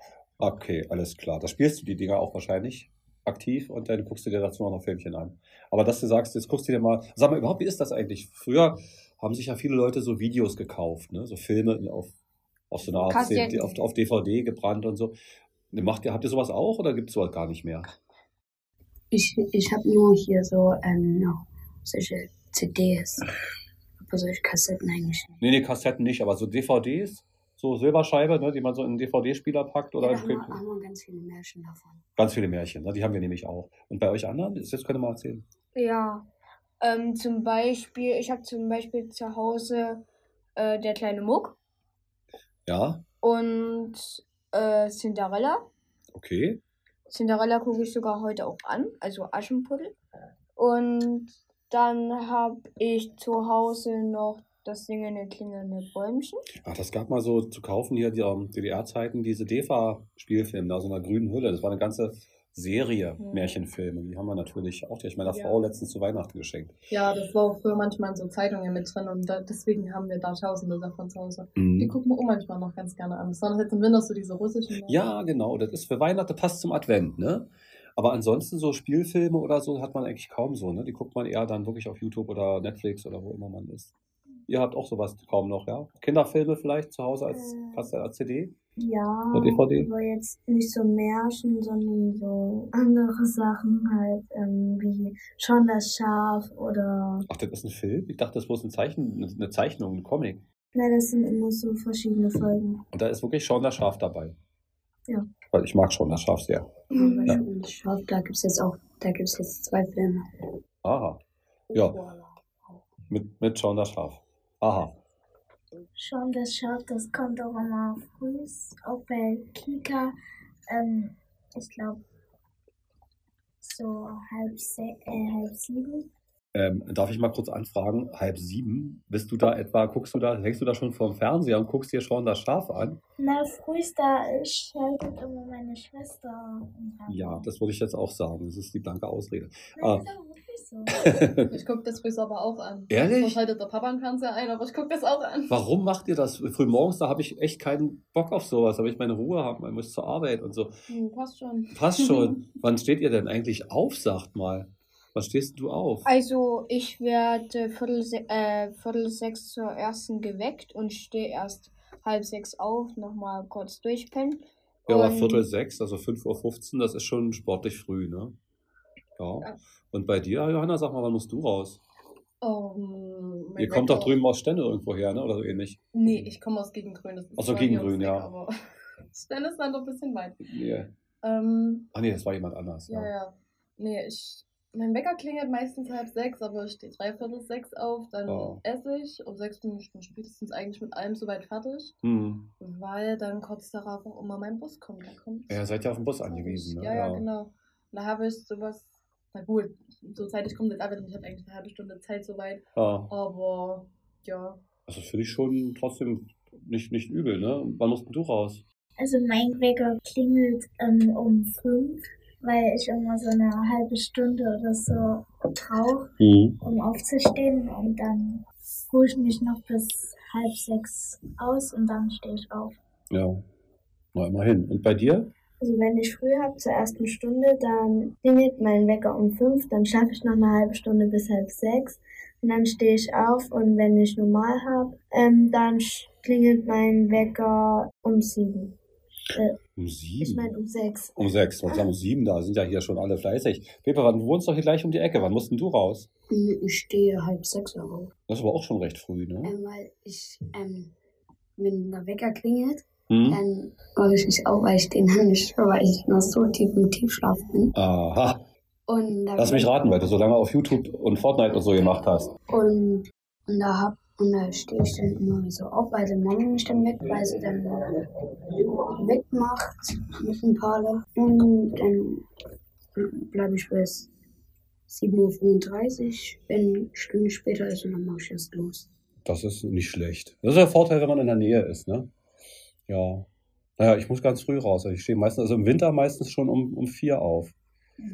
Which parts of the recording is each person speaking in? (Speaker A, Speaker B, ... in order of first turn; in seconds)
Speaker A: 0.4-12.1, 12.7-15.2, 15.7-17.9, 25.4-30.6, 32.2-35.5, 42.7-43.0, 46.1-46.6, 56.6-66.8, 71.6-72.0, 74.8-83.9, 84.5-88.5, 89.3-89.9, 97.3-100.4, 102.9-104.4, 105.5-107.4, 110.8-111.2, 111.7-112.0, 113.1-115.0, 126.5-133.0, 137.1-140.1, 140.9-141.5, 142.9-143.4, 145.5-150.7, 151.7-156.1, 164.9-168.3, 169.2-171.8, 173.6-175.8, 177.4-178.3, 180.5-180.9, 181.9-183.1, 188.3-188.6, 192.0-192.5, 195.5-197.3, 202.8-203.1, 204.9-208.6, 216.2-216.6, 223.1-223.4, 224.2-225.3, 239.8-240.5, 241.2-246.1, 248.3-249.6, 253.1-253.4, 257.8-258.4, 259.4-262.3, 279.2-282.1, 282.9-283.3, 283.8-287.6
Speaker B: 13.1-13.7, 35.8-36.3, 36.8-40.0, 40.6-41.6, 43.2-45.7, 47.1-50.0, 50.6-56.4, 156.1-165.5
Speaker C: 13.2-13.8, 19.1-23.2, 24.0-25.4, 30.0-32.0, 106.9-110.2, 111.7-112.8, 246.3-248.1, 249.4-250.9, 251.6-257.7, 258.9-259.8, 262.5-268.0, 268.7-272.2, 273.0-274.1, 274.9-278.9
Speaker D: 63.2-63.5, 65.2-65.8, 66.9-75.0, 141.5-145.6, 150.9-152.4, 172.4-174.2, 175.9-178.5, 179.1-180.5, 181.2-181.9, 182.9-192.0, 192.6-204.6
Speaker E: 87.3-88.0, 88.8-97.3, 100.8-102.8, 107.0-107.4, 225.6-238.8, 240.2-241.9
Speaker F: 116.0-120.1, 120.7-122.0, 123.6-126.1, 133.2-137.5, 139.8-141.1, 209.0-222.8